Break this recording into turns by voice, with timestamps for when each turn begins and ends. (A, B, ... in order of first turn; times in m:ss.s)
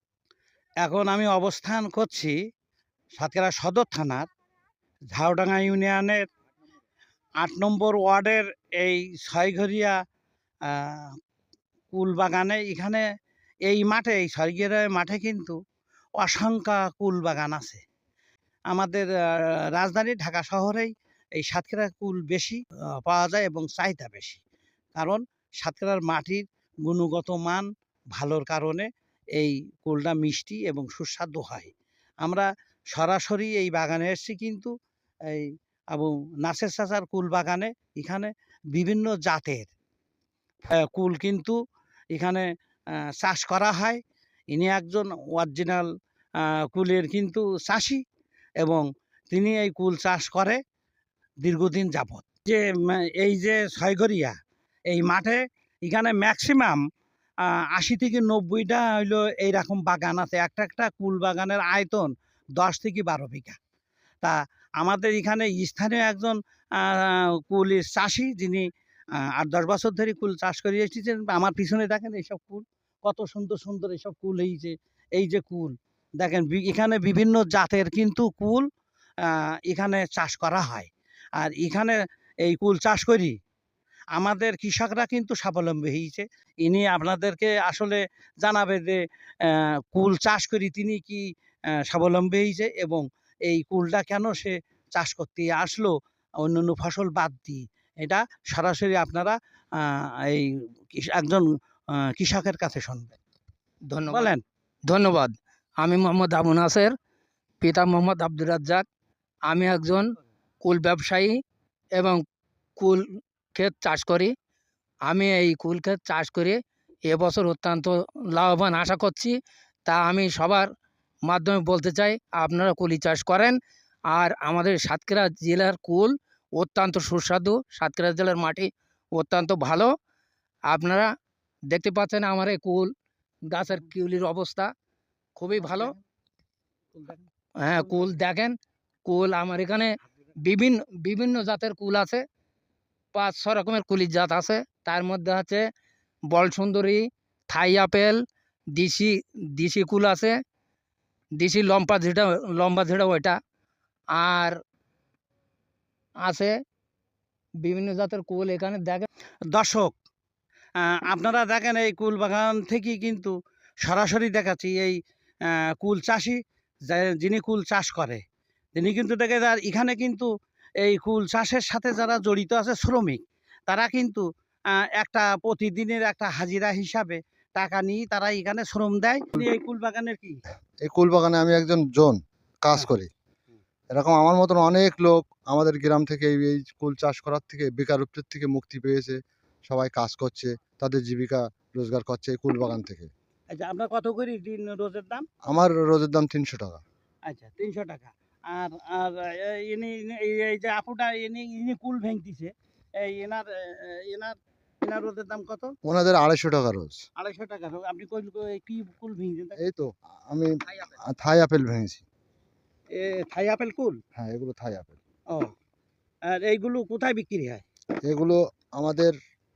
0:00.8-0:02.3 A
0:03.2-0:04.2 A
0:05.1-0:06.2 A
0:07.4-0:10.0 A
0:10.7-0:11.1 A
0:11.9-0:13.0 A
0:13.6-0:15.6 A
0:16.2-0:17.8 A
0:18.7-0:24.4 A
0:25.0-0:31.7 A
0:32.2-0:34.7 A
0:35.3-0:39.7 A
0:40.7-0:41.6 A
0:42.1-0:42.4 A
0:43.2-0:44.0 A
0:44.5-0:48.0 A
0:48.6-0:50.6 A
0:51.4-0:54.4 A
0:54.9-0:56.8 A
0:57.7-1:03.6 A
1:04.2-1:08.7 A
1:09.2-1:18.7 A
1:19.2-1:23.4 A
1:24.2-1:31.2 A
1:31.8-1:41.5 A
1:42.0-1:43.1 A
1:43.9-1:44.3 B
1:44.1-1:44.4 A
1:44.9-1:46.9 B
1:47.6-1:48.8 B
1:49.5-1:50.1 B
1:50.6-1:51.3 B
1:52.0-1:52.2 B
1:52.8-1:53.0 B
1:53.6-1:54.3 B
1:55.1-1:59.4 B
1:59.9-2:00.7 B
2:01.3-2:03.6 B
2:04.1-2:09.9 B
2:10.7-2:11.1 B
2:11.7-2:12.9 B
2:13.5-2:14.7 B
2:15.4-2:15.9 B
2:15.6-2:15.9 A
2:17.0-2:17.2 A
2:17.6-2:18.6 B
2:19.1-2:22.2 B
2:23.1-2:25.7 B
2:26.3-2:28.2 B
2:28.8-2:30.4 B
2:31.4-2:33.4 B
2:34.2-2:34.6 B
2:36.2-2:36.5 B
2:37.6-2:39.1 B
2:39.5-2:40.0 A
2:40.8-2:45.0 A
2:45.5-2:48.2 A
2:48.8-2:50.3 A
2:50.8-3:00.4 A
3:00.8-3:03.1 C
3:03.9-3:13.1 C
3:13.5-3:15.2 A
3:15.5-3:16.8 C
3:17.3-3:25.7 A
3:25.8-3:27.0 C
3:27.2-3:29.6 A
3:29.6-3:32.0 C
3:32.9-3:34.0 A
3:34.2-3:35.0 C
3:36.3-3:37.6 A
3:38.1-3:39.1 C